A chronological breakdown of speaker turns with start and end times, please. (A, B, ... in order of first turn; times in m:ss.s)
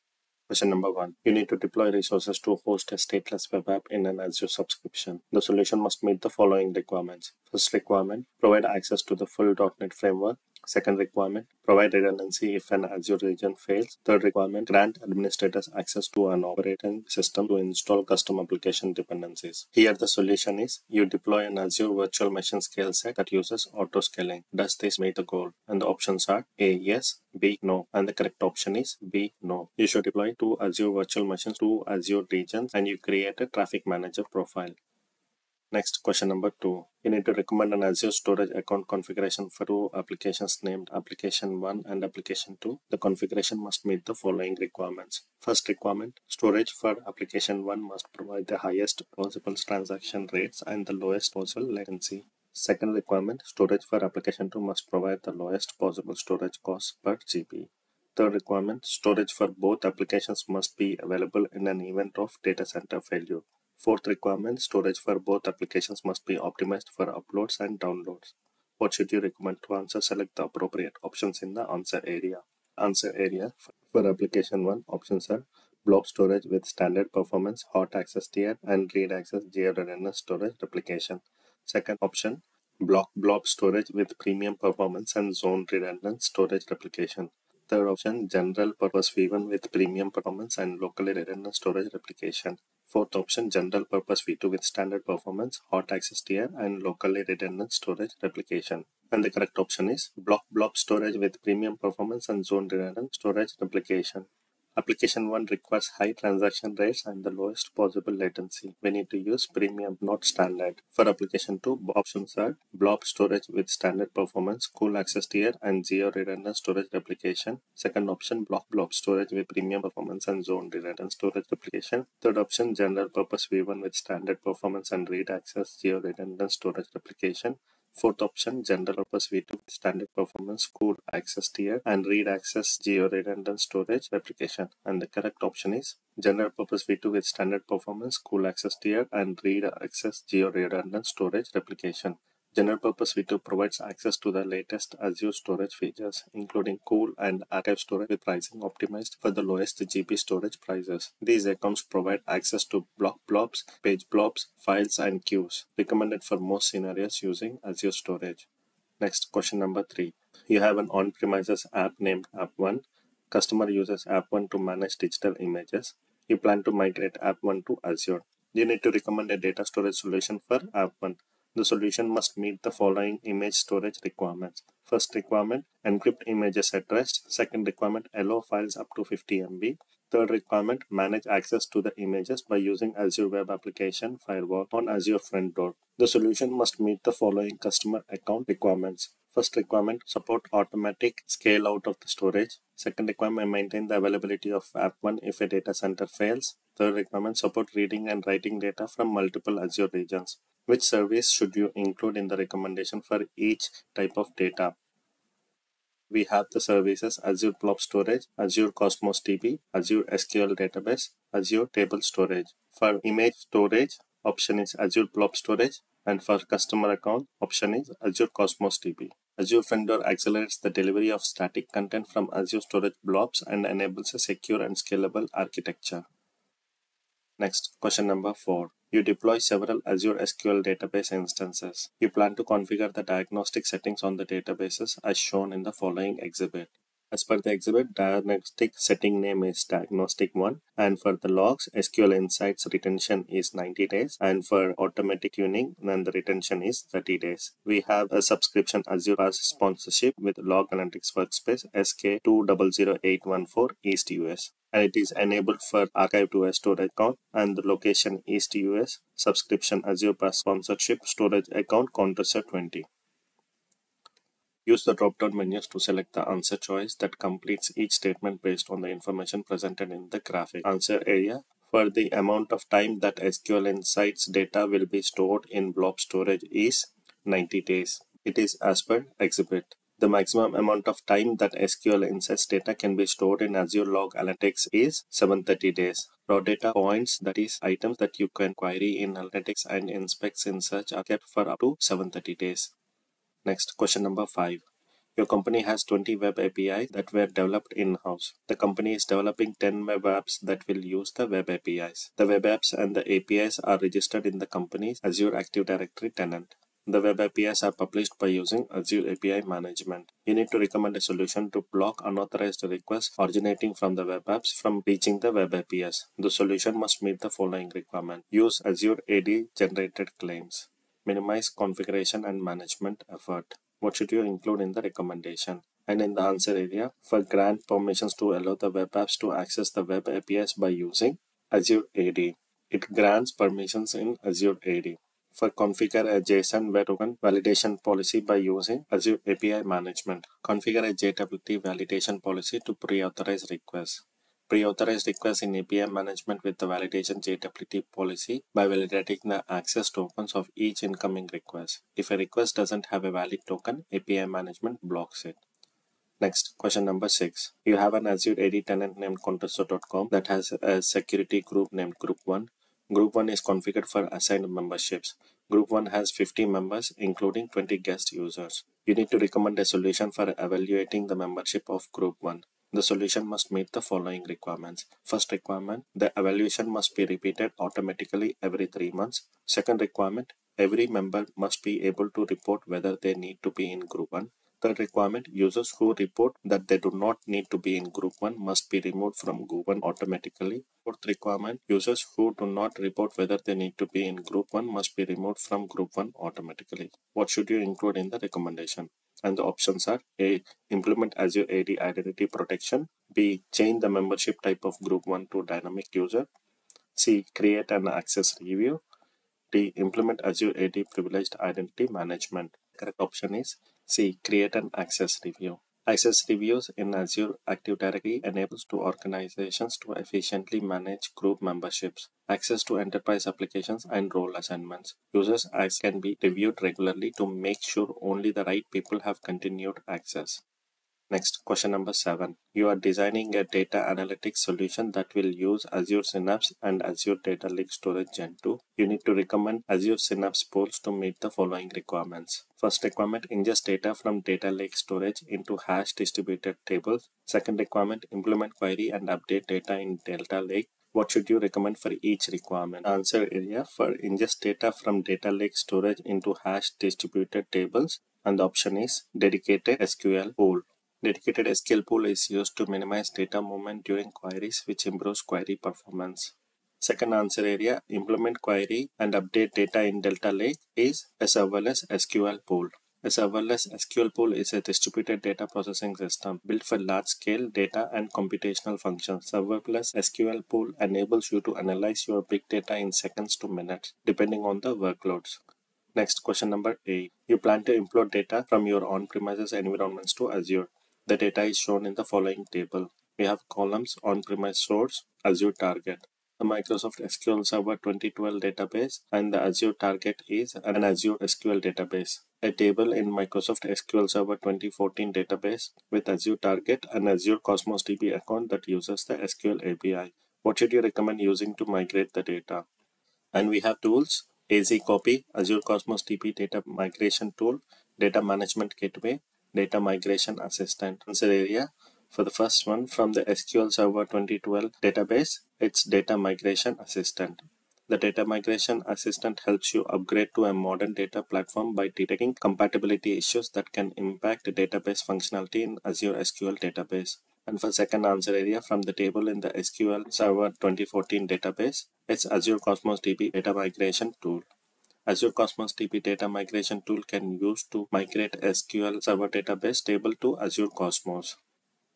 0:00.5-0:34.8 A
0:35.7-2:38.5 A
2:39.0-3:24.7 A
3:26.1-3:46.0 A
3:47.4-4:22.8 A
4:24.7-4:52.7 A
4:53.4-4:54.6 A
4:55.2-5:55.4 A
5:56.2-6:46.3 A
6:47.0-6:48.8 A
6:49.5-7:10.4 A
7:11.1-8:05.4 A
8:06.0-8:32.6 A
8:33.3-9:04.4 A
9:05.1-9:11.4 A